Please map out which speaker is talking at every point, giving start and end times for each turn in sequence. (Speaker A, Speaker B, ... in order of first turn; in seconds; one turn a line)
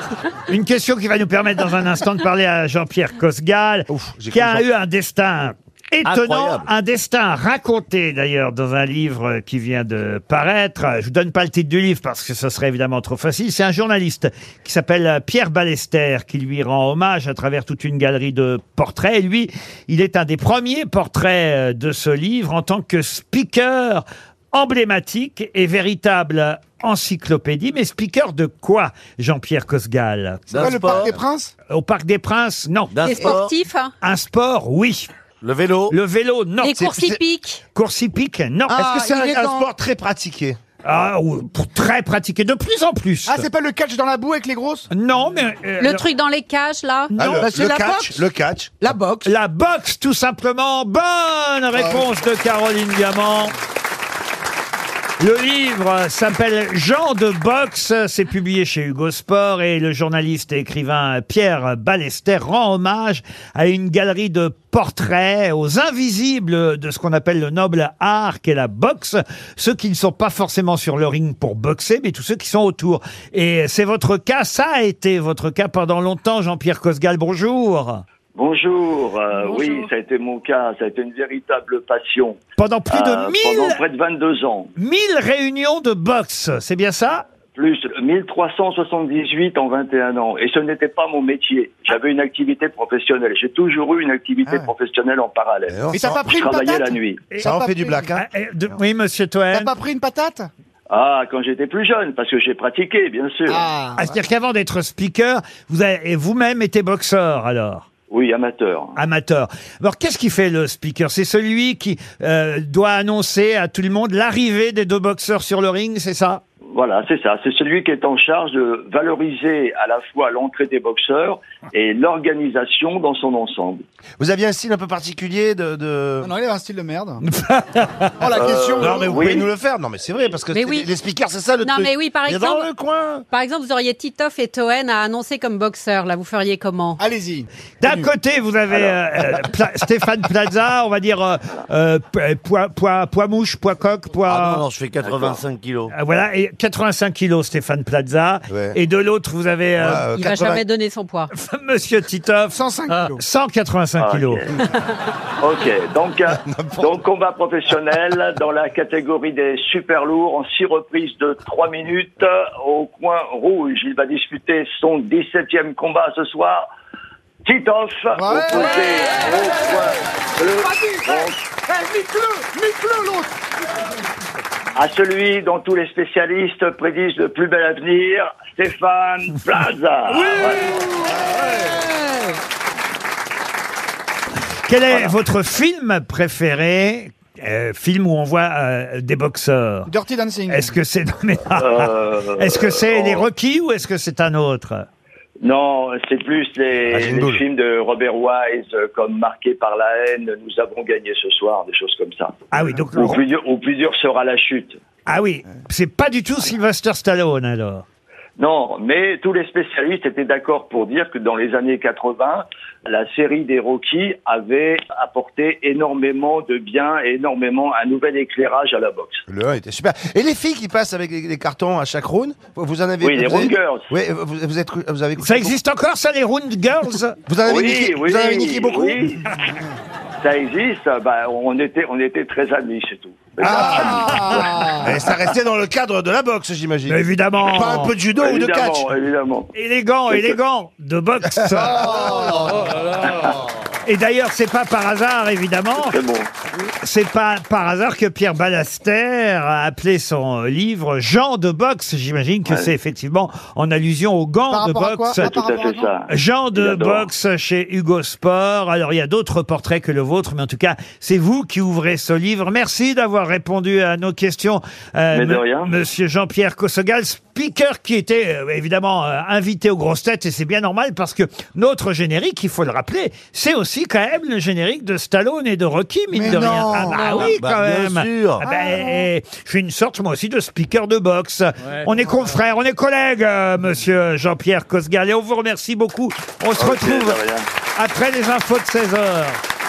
Speaker A: 0.5-31.1
Speaker B: 3.9-4.7
Speaker C: 6.0-6.7
Speaker C: 30.5-31.1
Speaker D: 30.5-31.5
Speaker A: 31.7-33.3
Speaker C: 32.9-33.5
Speaker E: 33.1-33.9
Speaker D: 33.1-33.4
Speaker A: 34.0-35.1
Speaker C: 35.4-36.0
Speaker A: 35.9-36.9
Speaker E: 36.6-37.5
Speaker B: 36.8-37.2
Speaker A: 37.7-38.9
Speaker D: 38.7-39.7
Speaker B: 38.8-40.6
Speaker A: 40.8-43.4
Speaker D: 43.2-44.9
Speaker A: 44.9-46.0
Speaker E: 45.8-47.1
Speaker A: 47.1-47.5
Speaker B: 47.1-48.8
Speaker D: 47.4-48.2
Speaker D: 48.8-49.3
Speaker A: 49.2-53.5
Speaker A: 55.2-78.0
Speaker F: 78.3-82.4
Speaker E: 79.4-79.8
Speaker A: 82.6-83.8
Speaker F: 82.9-84.7
Speaker A: 84.8-87.2
Speaker F: 87.5-95.7
Speaker B: 95.7-96.2
Speaker D: 95.9-98.1
Speaker F: 96.3-97.2
Speaker B: 97.4-98.2
Speaker A: 98.1-99.7
Speaker D: 99.5-100.5
Speaker F: 100.9-103.7
Speaker D: 103.5-104.1
Speaker A: 104.0-107.8
Speaker F: 108.1-109.0
Speaker A: 109.0-116.4
Speaker F: 116.7-123.8
Speaker B: 124.2-126.3
Speaker D: 126.2-127.2
Speaker A: 127.2-128.2
Speaker D: 128.2-129.2
Speaker F: 128.3-129.5
Speaker B: 128.8-133.2
Speaker E: 130.5-130.8
Speaker E: 131.6-132.7
Speaker E: 133.3-137.0
Speaker D: 137.0-138.1
Speaker A: 137.8-144.6
Speaker F: 138.7-139.0
Speaker C: 144.2-145.9
Speaker F: 145.0-145.4
Speaker A: 145.9-150.1
Speaker B: 148.5-148.8
Speaker B: 149.8-150.6
Speaker E: 150.2-151.2
Speaker A: 151.3-152.6
Speaker D: 152.5-153.2
Speaker A: 153.1-154.4
Speaker F: 154.0-154.6
Speaker F: 155.4-166.7
Speaker B: 156.4-157.0
Speaker F: 167.4-171.4
Speaker D: 168.1-168.7
Speaker D: 170.6-173.3
Speaker F: 174.8-180.7
Speaker D: 180.1-182.3
Speaker A: 184.7-189.9
Speaker F: 184.9-185.2
Speaker D: 189.9-190.7
Speaker A: 190.5-194.8
Speaker F: 191.5-193.3
Speaker F: 195.4-202.4
Speaker B: 196.9-197.4
Speaker A: 202.5-203.2
Speaker F: 202.9-204.8
Speaker A: 205.1-207.8
Speaker F: 208.4-219.2
Speaker B: 219.3-225.6
Speaker F: 223.0-223.9
Speaker A: 225.2-227.2
Speaker B: 227.2-229.0
Speaker F: 227.4-229.2
Speaker F: 230.2-235.1
Speaker D: 233.4-234.9
Speaker B: 233.4-238.9
Speaker A: 233.5-234.4
Speaker A: 236.9-237.9
Speaker F: 238.1-239.5
Speaker A: 239.5-242.2
Speaker F: 240.1-240.4
Speaker B: 241.4-242.7
Speaker D: 241.7-242.7
Speaker A: 243.8-246.0
Speaker F: 245.7-246.3
Speaker A: 246.8-255.3
Speaker F: 252.4-252.7
Speaker D: 254.5-255.9
Speaker F: 255.2-257.1
Speaker A: 256.1-287.2
Speaker F: 265.1-265.7
Speaker D: 276.1-277.2
Speaker E: 276.9-277.3
Speaker C: 277.1-278.5
Speaker F: 286.6-287.5
Speaker A: 287.8-289.4